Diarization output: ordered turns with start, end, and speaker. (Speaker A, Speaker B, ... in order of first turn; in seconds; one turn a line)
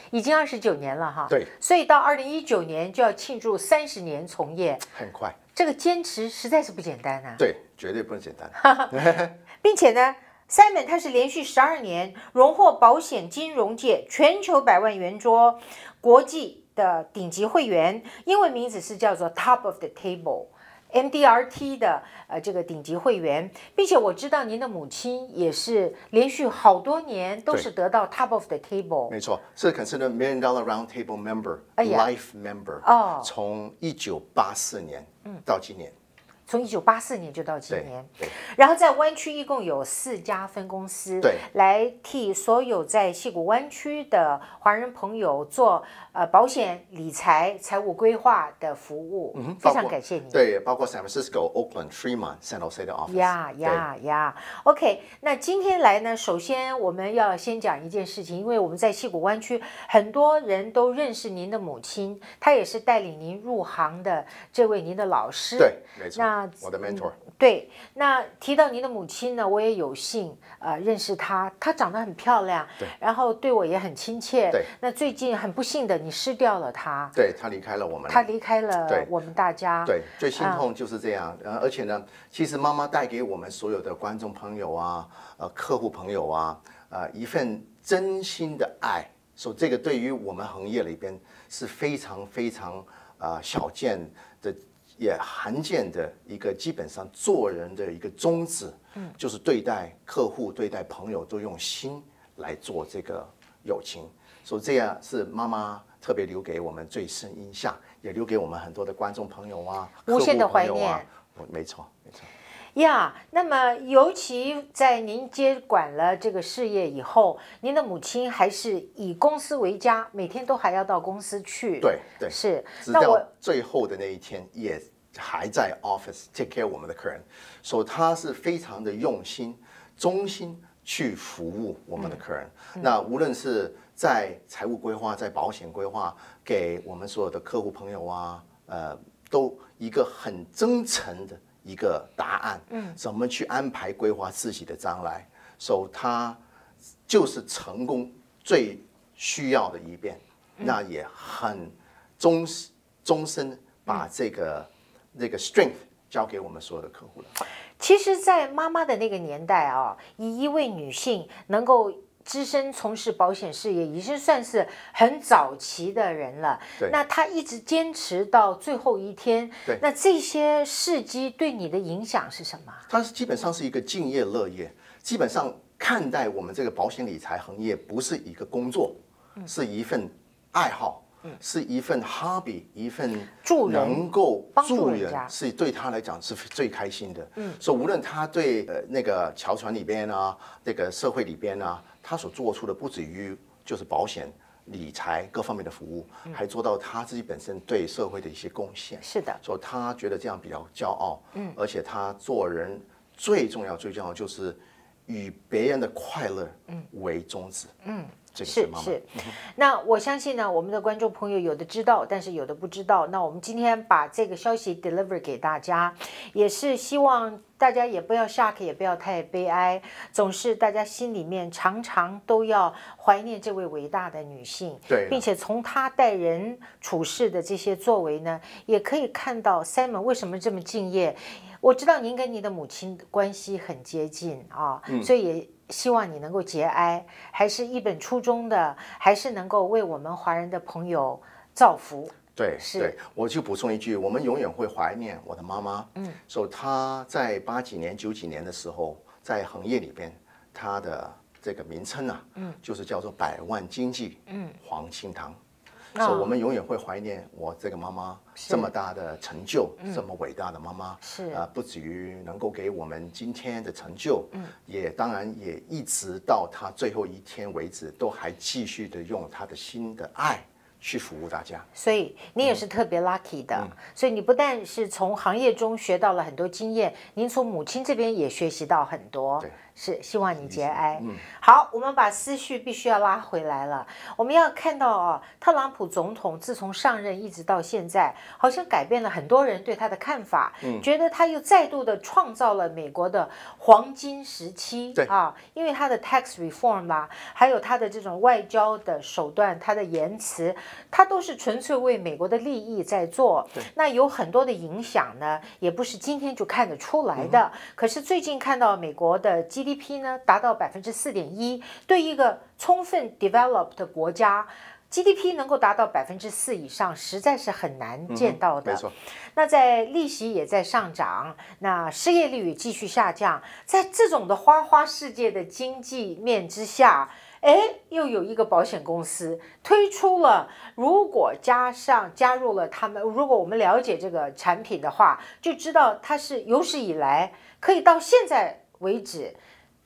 Speaker A: 0.1-4.9
Speaker B: 4.9-5.4
Speaker A: 5.5-7.4
Speaker B: 7.4-9.4
Speaker A: 8.6-8.9
Speaker A: 9.6-29.1
Speaker B: 29.1-35.9
Speaker A: 31.8-32.1
Speaker A: 32.8-33.3
Speaker A: 36.5-50.4
Speaker B: 37.7-38.4
Speaker B: 41.2-41.5
Speaker B: 49.3-53.9
Speaker A: 53.1-77.2
Speaker B: 65.6-67.2
Speaker B: 77.1-78.3
Speaker A: 78.1-80.6
Speaker B: 79.8-112.3
Speaker A: 110.1-111.0
Speaker A: 112.8-123.3
Speaker B: 121.8-146.4
Speaker A: 142.7-143.0
Speaker B: 147.1-157.3
Speaker A: 157.8-172.8
Speaker B: 172.9-207.7
Speaker A: 183.4-184.0
Speaker A: 184.6-185.3
Speaker A: 199.0-199.4
Speaker A: 207.8-243.0
Speaker B: 208.3-209.3
Speaker B: 224.9-225.2
Speaker B: 242.4-255.4
Speaker A: 254.3-254.6
Speaker A: 255.9-256.3
Speaker B: 256.0-271.7
Speaker A: 258.4-258.7
Speaker A: 261.0-261.4
Speaker A: 271.7-339.4
Speaker B: 280.4-281.2
Speaker B: 290.6-290.9
Speaker B: 307.2-307.4
Speaker B: 318.1-318.9